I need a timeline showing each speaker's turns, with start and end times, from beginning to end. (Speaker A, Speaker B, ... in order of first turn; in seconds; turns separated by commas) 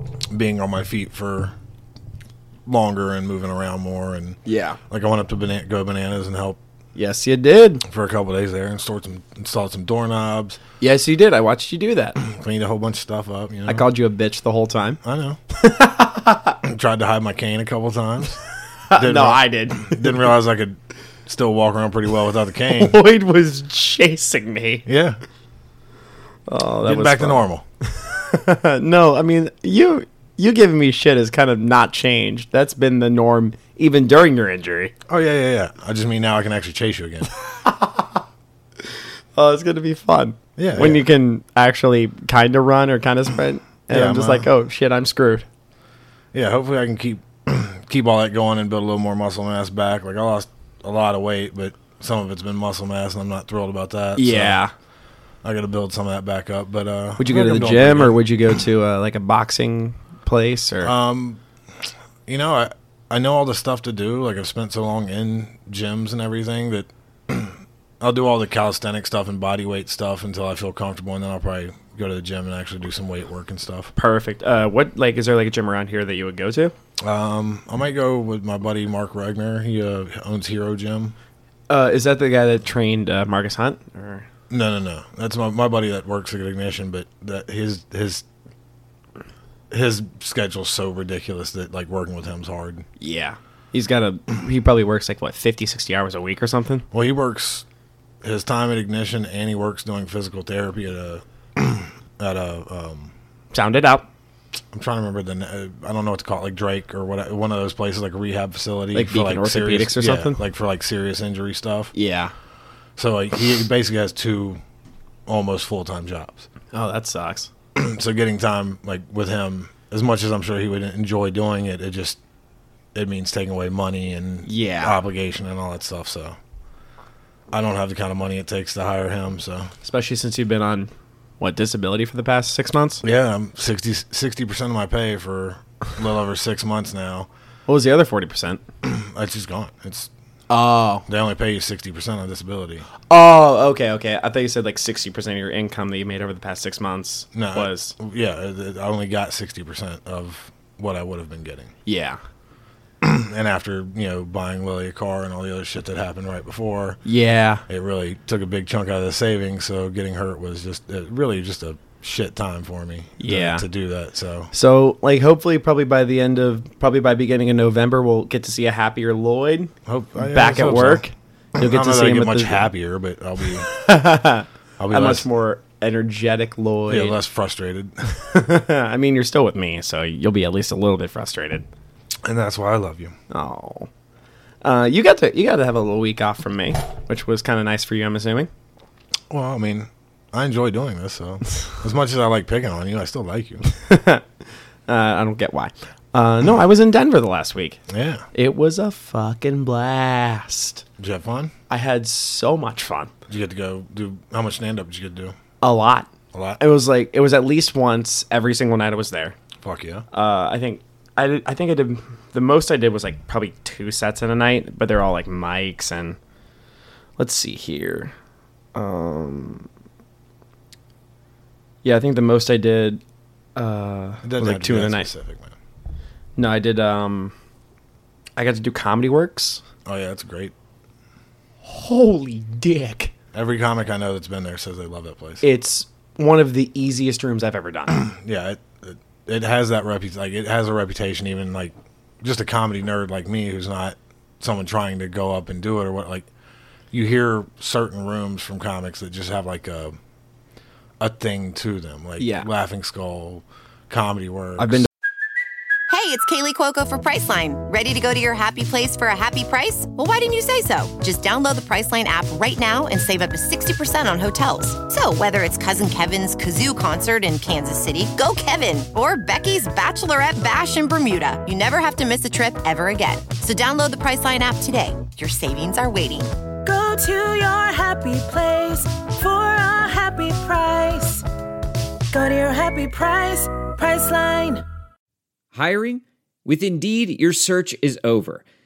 Speaker A: 0.3-1.5, Speaker A: 2.6-6.6, Speaker B: 4.4-4.8, Speaker B: 6.9-7.8, Speaker A: 7.8-10.6, Speaker B: 10.8-12.2, Speaker A: 12.2-13.8, Speaker B: 13.7-15.0, Speaker A: 15.0-15.4, Speaker B: 15.5-16.6, Speaker A: 16.6-18.4, Speaker B: 18.9-20.2, Speaker A: 18.9-23.0, Speaker B: 22.7-24.9, Speaker A: 24.9-25.2, Speaker B: 26.5-34.9, Speaker A: 26.8-27.6, Speaker A: 35.1-37.3, Speaker B: 37.5-38.2, Speaker B: 39.3-45.5, Speaker A: 40.6-41.0, Speaker A: 43.9-44.5, Speaker A: 46.3-54.6, Speaker B: 54.1-54.7, Speaker A: 55.4-58.2, Speaker B: 57.2-60.9, Speaker A: 60.8-61.4, Speaker A: 62.2-73.9, Speaker B: 74.0-76.7, Speaker A: 77.0-81.1, Speaker B: 81.7-84.2, Speaker A: 84.5-88.2, Speaker A: 89.7-92.8, Speaker B: 93.0-96.8, Speaker A: 96.9-97.6, Speaker A: 98.2-103.1, Speaker B: 103.5-104.1, Speaker A: 104.7-111.9, Speaker B: 108.9-110.4, Speaker B: 111.9-112.3, Speaker A: 113.0-114.6, Speaker A: 115.3-116.5, Speaker B: 116.7-117.5, Speaker A: 117.7-122.2, Speaker A: 122.9-126.4, Speaker B: 124.4-125.0, Speaker A: 127.5-129.7, Speaker B: 129.8-133.0, Speaker A: 133.0-137.3, Speaker B: 137.7-138.6, Speaker A: 138.8-140.1, Speaker B: 140.5-141.0, Speaker A: 141.1-142.9, Speaker B: 143.1-147.9, Speaker A: 147.3-151.7, Speaker B: 151.8-152.2, Speaker A: 153.0-157.0, Speaker B: 157.0-157.6, Speaker A: 157.7-164.5, Speaker B: 163.2-163.6, Speaker B: 164.5-172.7, Speaker A: 169.8-171.0, Speaker A: 171.5-173.7, Speaker B: 173.6-177.2, Speaker A: 174.8-175.2, Speaker A: 176.9-178.0, Speaker B: 178.1-181.7, Speaker A: 182.2-183.1, Speaker B: 183.3-183.9, Speaker B: 184.6-188.5, Speaker A: 189.3-193.6, Speaker B: 193.7-194.2, Speaker B: 194.9-197.8, Speaker A: 197.9-198.2, Speaker B: 198.3-200.8, Speaker A: 201.0-201.5, Speaker B: 201.7-203.1, Speaker A: 203.3-205.3, Speaker B: 205.6-209.3, Speaker A: 206.3-206.6, Speaker A: 209.6-210.1, Speaker B: 210.1-216.2, Speaker B: 217.2-218.1, Speaker B: 218.7-219.7, Speaker B: 221.8-223.0, Speaker B: 223.6-225.1, Speaker A: 224.2-225.5, Speaker B: 226.4-227.3, Speaker B: 228.3-229.6, Speaker A: 229.8-230.5, Speaker B: 231.6-233.1, Speaker A: 233.3-235.4, Speaker B: 235.4-238.0, Speaker A: 237.9-246.3, Speaker A: 246.9-250.0, Speaker A: 251.0-254.9, Speaker B: 252.2-252.5, Speaker B: 254.6-254.9, Speaker C: 255.9-276.3, Speaker D: 276.6-281.2, Speaker D: 282.1-284.6, Speaker E: 285.5-288.4